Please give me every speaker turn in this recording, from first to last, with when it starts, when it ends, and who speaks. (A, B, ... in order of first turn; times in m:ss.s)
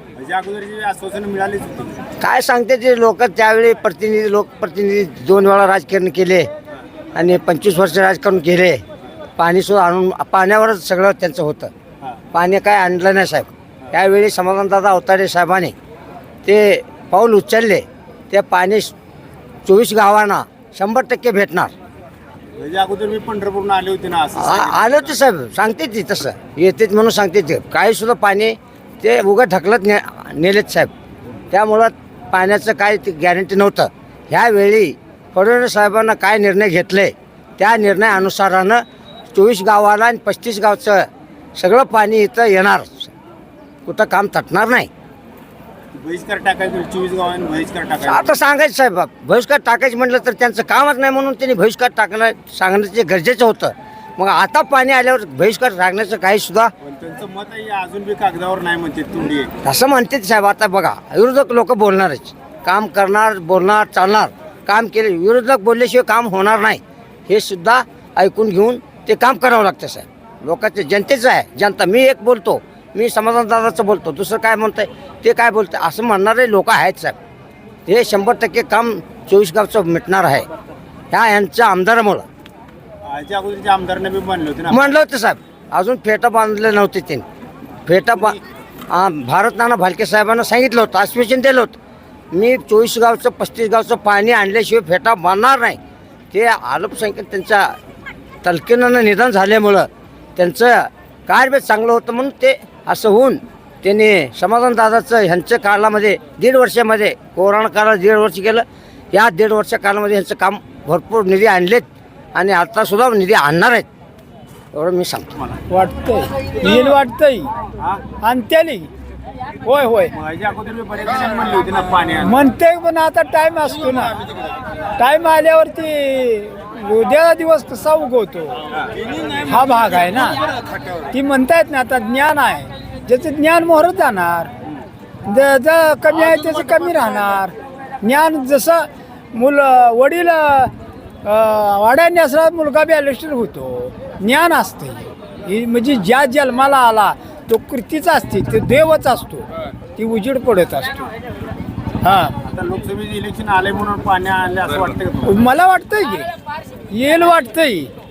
0:00.2-0:02.0 A
0:02.2-0:06.5 B
0:07.2-0:08.8 B
0:09.4-0:11.7 B
0:12.3-0:15.8 B
0:16.4-0:18.9 B
0:19.6-0:21.7 B
0:22.6-0:25.1 A
0:24.4-0:30.9 B
0:31.5-0:43.1 B
0:43.9-0:44.9 B
0:46.0-0:48.4 A
0:48.0-0:56.7 B
0:56.8-0:59.6 A
0:59.6-1:17.2 B
1:17.9-1:20.5 B
1:21.1-1:22.3 B
1:23.0-1:24.9 A
1:24.7-1:27.2 B
1:27.9-1:31.8 B
1:32.3-1:35.8 B
1:36.3-1:37.8 B
1:38.4-1:53.9 B
1:54.7-1:55.4 B
1:55.7-1:57.5 C
1:57.8-1:58.1 A
1:58.1-1:58.9 C
1:59.6-2:00.1 C
2:00.1-2:02.5 A
2:02.2-2:04.2 C
2:05.0-2:08.6 C
2:08.8-2:11.1 A
2:09.5-2:10.4 C
2:11.1-2:14.5 C
2:15.2-2:20.7 C
2:21.2-2:31.1 C
2:32.0-2:32.4 C
2:32.4-2:35.4 A
2:35.2-2:36.3 C
2:36.9-2:37.9 C